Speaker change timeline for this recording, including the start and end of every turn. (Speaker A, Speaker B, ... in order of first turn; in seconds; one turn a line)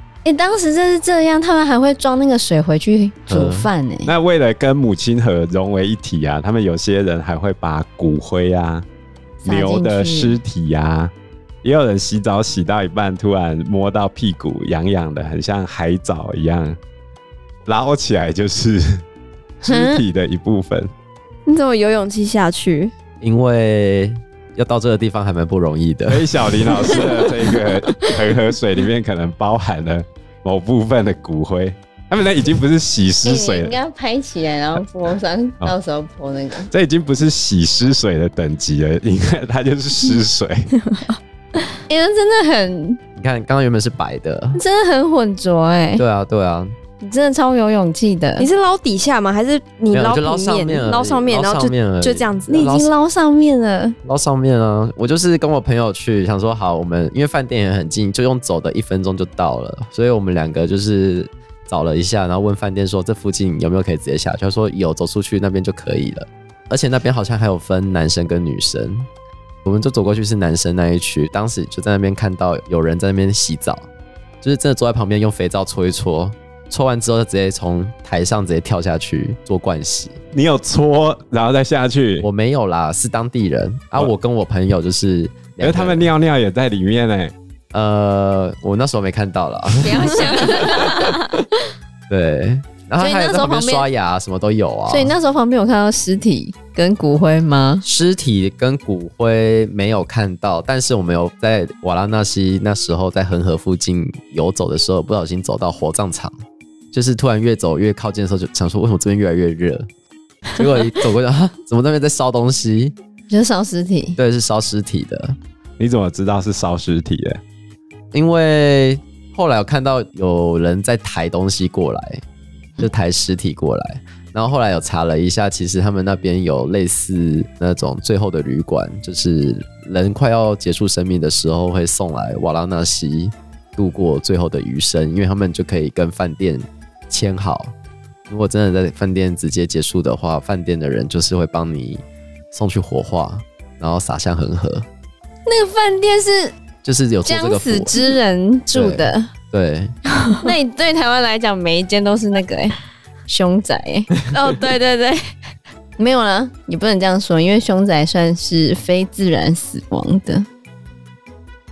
Speaker A: 0.2-4.1
Speaker B: 3.3-3.7
Speaker C: 4.1-8.8
Speaker A: 9.4-10.4
Speaker C: 9.4-11.1
Speaker C: 11.6-16.8
Speaker C: 17.7-19.0
Speaker C: 19.6-20.9
Speaker A: 19.6-20.0
Speaker D: 21.5-22.9
Speaker B: 23.2-27.1
Speaker C: 26.1-33.8
Speaker A: 33.2-36.7
Speaker C: 36.7-40.7
Speaker D: 40.9-41.2
Speaker A: 41.9-43.0
Speaker B: 43.2-44.6
Speaker A: 44.5-46.0
Speaker B: 46.0-46.8
Speaker A: 47.0-48.5
Speaker D: 48.4-52.6
Speaker B: 49.9-52.9
Speaker A: 52.5-54.0
Speaker B: 54.0-69.1
Speaker B: 69.7-73.9
Speaker B: 74.4-80.2
Speaker C: 80.3-82.3
Speaker B: 82.2-86.1
Speaker C: 85.6-87.3
Speaker B: 87.7-91.1
Speaker A: 89.8-91.1
Speaker D: 89.9-91.0
Speaker B: 92.1-95.1
Speaker A: 93.0-93.9
Speaker A: 94.9-97.9
Speaker B: 97.8-106.3
Speaker B: 106.9-109.9
Speaker B: 110.5-112.9
Speaker A: 113.3-114.2
Speaker B: 114.2-115.4
Speaker C: 115.8-117.4
Speaker B: 118.1-122.2
Speaker B: 122.8-137.7
Speaker B: 138.3-144.9
Speaker A: 145.5-146.6
Speaker B: 146.8-148.0
Speaker A: 147.3-149.3
Speaker B: 148.7-149.9
Speaker A: 150.4-152.8
Speaker A: 153.3-154.1
Speaker D: 154.3-155.2
Speaker A: 156.0-160.5